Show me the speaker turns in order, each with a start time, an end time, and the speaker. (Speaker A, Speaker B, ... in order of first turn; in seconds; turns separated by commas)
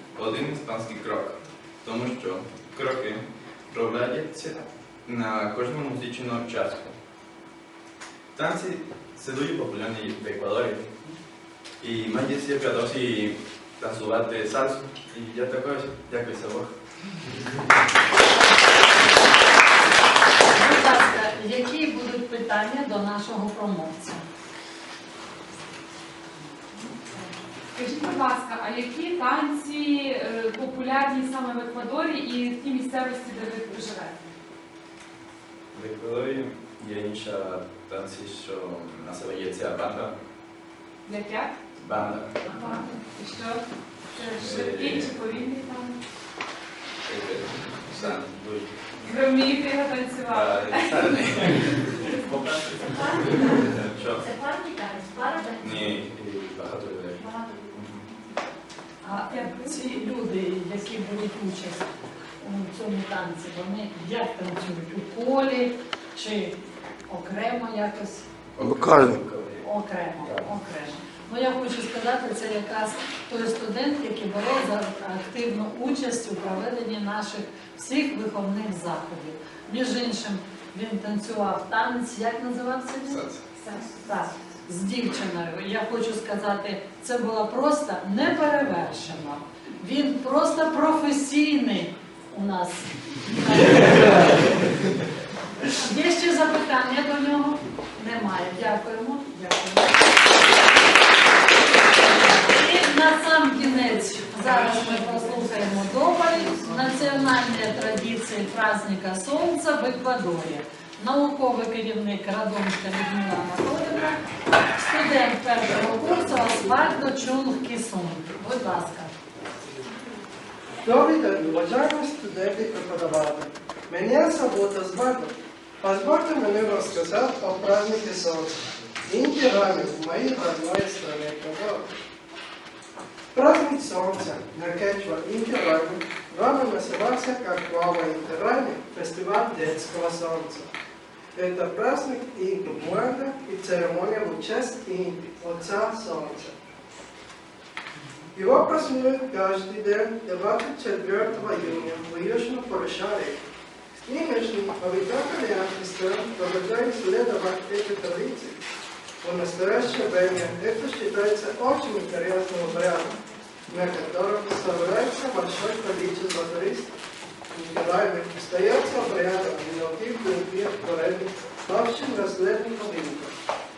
Speaker A: 0.1-7.0, Speaker A: 8.3-10.9, Speaker A: 11.8-16.7, Speaker B: 20.5-24.2, Speaker C: 27.7-34.2, Speaker A: 35.7-40.1, Speaker C: 41.0-41.5, Speaker A: 41.8-42.5, Speaker C: 42.5-46.0, Speaker A: 44.3-45.2, Speaker A: 47.0-48.8, Speaker C: 49.0-51.4, Speaker A: 50.3-54.3, Speaker D: 52.9-53.3, Speaker D: 54.2-56.0, Speaker A: 55.6-58.0, Speaker D: 57.2-57.8, Speaker B: 59.0-66.5, Speaker C: 59.1-60.0, Speaker B: 67.1-68.2, Speaker A: 68.5-69.6, Speaker B: 69.6-94.5, Speaker A: 83.0-83.4, Speaker B: 95.7-100.0, Speaker B: 102.1-114.2, Speaker B: 114.8-119.1, Speaker E: 120.8-131.9, Speaker E: 133.3-140.7, Speaker E: 141.3-146.6, Speaker E: 148.3-153.4, Speaker E: 154.1-158.6, Speaker E: 159.2-163.2, Speaker E: 163.7-166.9, Speaker E: 167.5-173.3